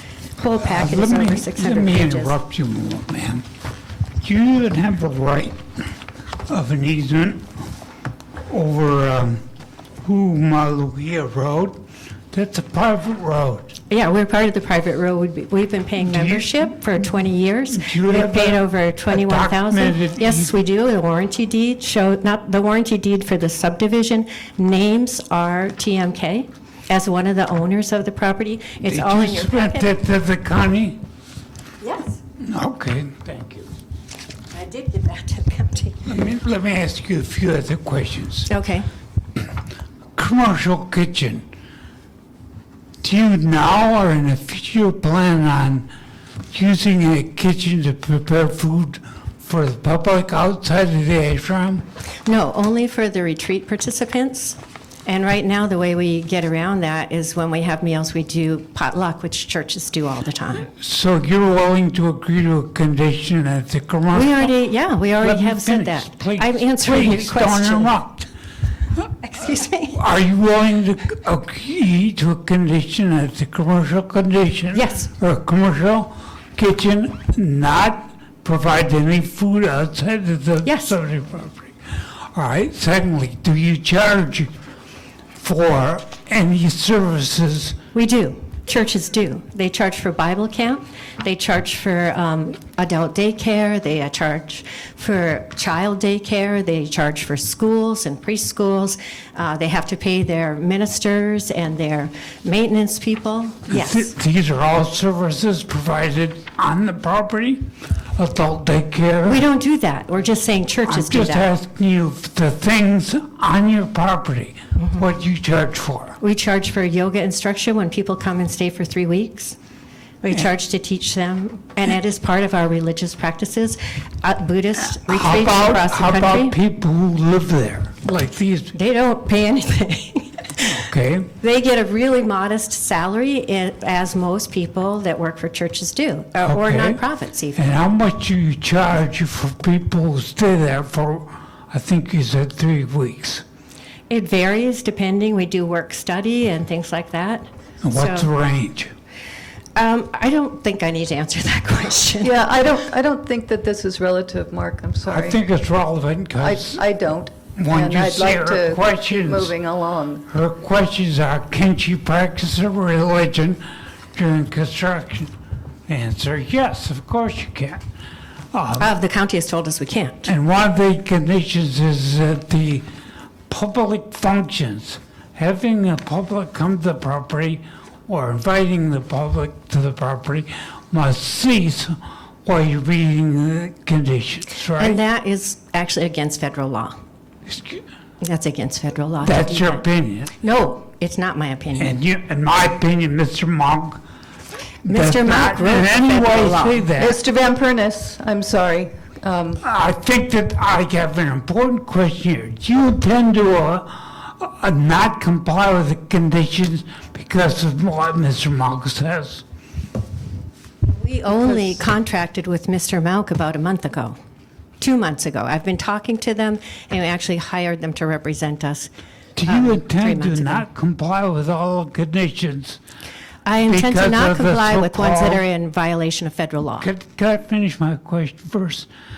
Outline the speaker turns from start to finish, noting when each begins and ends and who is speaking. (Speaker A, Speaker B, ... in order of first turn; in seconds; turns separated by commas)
Speaker A: 0.4-2.4, Speaker B: 0.6-3.4, Speaker B: 4.2-5.6, Speaker B: 6.5-7.5, Speaker B: 8.5-9.4, Speaker B: 10.0-13.8, Speaker A: 13.9-29.9, Speaker B: 16.0-16.8, Speaker B: 17.7-20.5, Speaker B: 28.8-31.0, Speaker A: 31.8-32.2, Speaker B: 32.4-33.7, Speaker A: 34.5-36.1, Speaker B: 36.1-38.5, Speaker A: 38.5-38.9, Speaker B: 40.2-41.5, Speaker B: 43.0-45.9, Speaker B: 46.5-51.9, Speaker A: 52.3-60.7, Speaker B: 60.7-64.5, Speaker A: 64.1-67.9, Speaker B: 65.2-68.3, Speaker A: 69.2-70.0, Speaker B: 69.9-81.7, Speaker A: 74.7-75.1, Speaker A: 80.6-81.0, Speaker B: 82.3-84.5, Speaker B: 85.4-87.8, Speaker A: 87.9-104.1, Speaker B: 103.7-107.6, Speaker B: 108.2-109.4, Speaker A: 109.3-111.5, Speaker B: 110.9-116.2, Speaker A: 116.2-119.6, Speaker A: 120.2-126.6, Speaker B: 124.9-128.8, Speaker A: 128.7-130.9, Speaker B: 130.6-131.3, Speaker A: 131.4-137.6, Speaker B: 136.4-137.0, Speaker B: 137.6-143.4, Speaker A: 144.1-148.3, Speaker B: 147.8-148.9, Speaker A: 149.8-152.4, Speaker C: 152.2-155.4, Speaker B: 155.1-156.8, Speaker C: 156.4-160.2, Speaker B: 157.6-159.5, Speaker B: 160.3-163.6, Speaker B: 164.2-165.3, Speaker B: 165.9-167.8, Speaker B: 168.5-168.9, Speaker A: 168.8-170.3, Speaker B: 170.2-172.9, Speaker B: 173.5-185.0, Speaker A: 184.8-186.9, Speaker B: 187.5-187.8, Speaker A: 188.2-189.8, Speaker B: 189.2-190.3, Speaker A: 190.4-192.0, Speaker B: 191.8-194.0, Speaker B: 194.8-197.2, Speaker A: 194.9-196.9, Speaker C: 197.0-199.6, Speaker B: 199.6-209.4, Speaker A: 210.9-214.2, Speaker A: 214.8-218.9, Speaker B: 219.4-222.8, Speaker A: 219.4-220.7, Speaker A: 223.4-226.9, Speaker B: 223.7-225.4, Speaker B: 226.8-228.9